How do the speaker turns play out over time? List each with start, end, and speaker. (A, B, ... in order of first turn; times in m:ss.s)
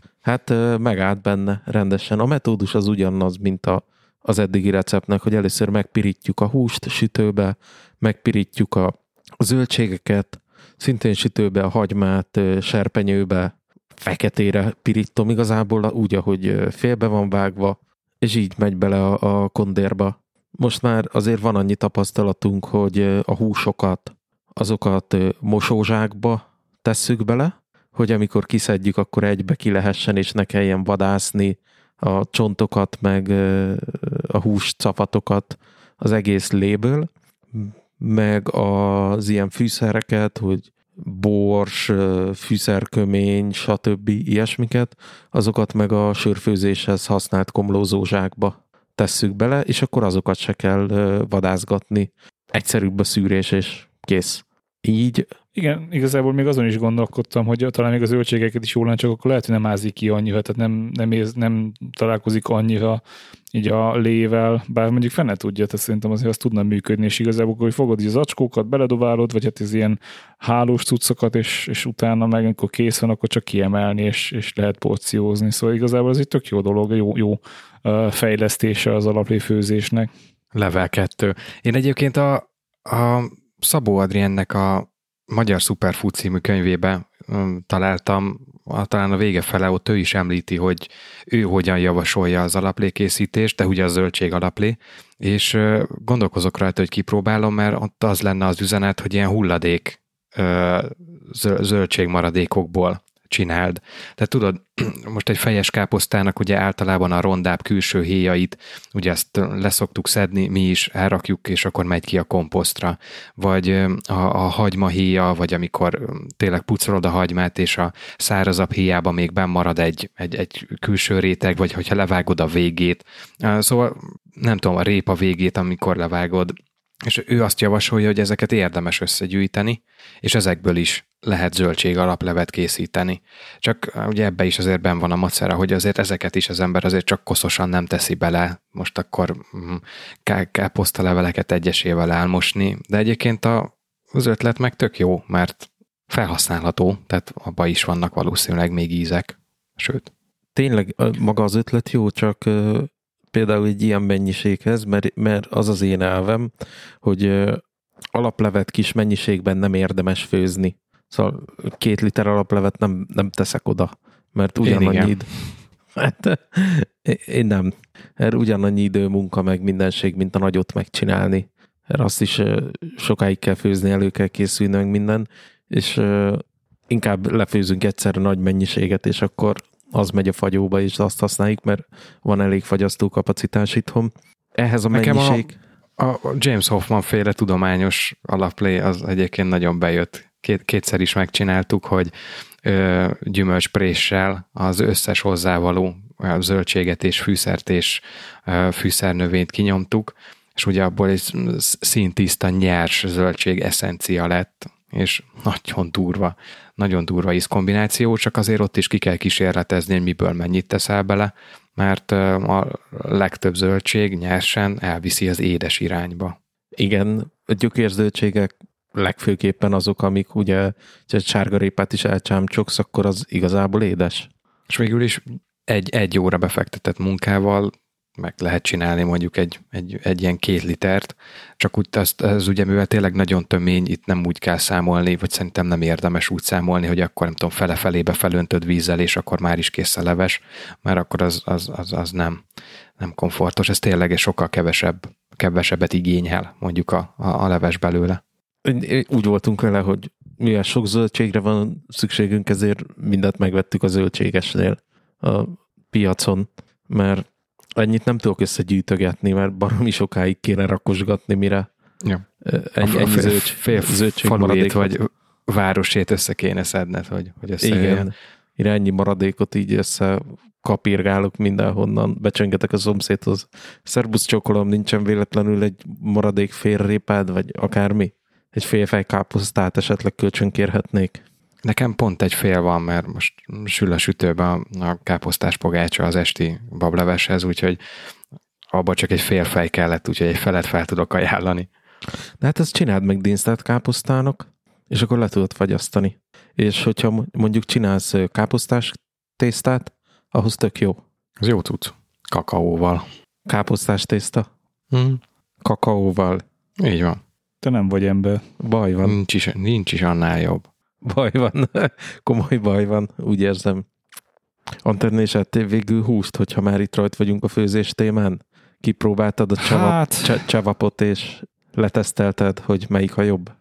0:00.2-0:55.3 A
0:55.6-1:03.0 B
1:03.5-1:20.1 B
1:20.5-2:30.1 C
2:30.6-2:36.5 A
2:37.0-2:37.6 A
2:38.1-2:45.3 A
2:44.6-2:45.2 C
2:46.0-3:05.6 A
3:04.9-3:12.1 C
3:12.6-3:36.4 C
3:36.8-3:44.3 A
3:44.7-4:02.4 C
4:03.0-4:08.2 C
4:08.6-4:17.3 A
4:17.8-4:21.7 A
4:22.4-4:25.0 A
4:22.8-4:28.1 C
4:27.6-4:41.2 A
4:41.6-4:47.8 C
4:48.7-4:51.7 C
4:52.4-5:01.0 A
5:01.4-5:03.1 C
5:03.5-5:04.5 A
5:04.9-5:05.2 C
5:05.6-5:06.4 A
5:06.8-5:07.2 C
5:07.6-5:08.4 B
5:08.6-5:09.2 A
5:09.0-5:10.7 C
5:11.0-5:13.9 A
5:14.8-5:23.5 A
5:19.6-5:20.4 B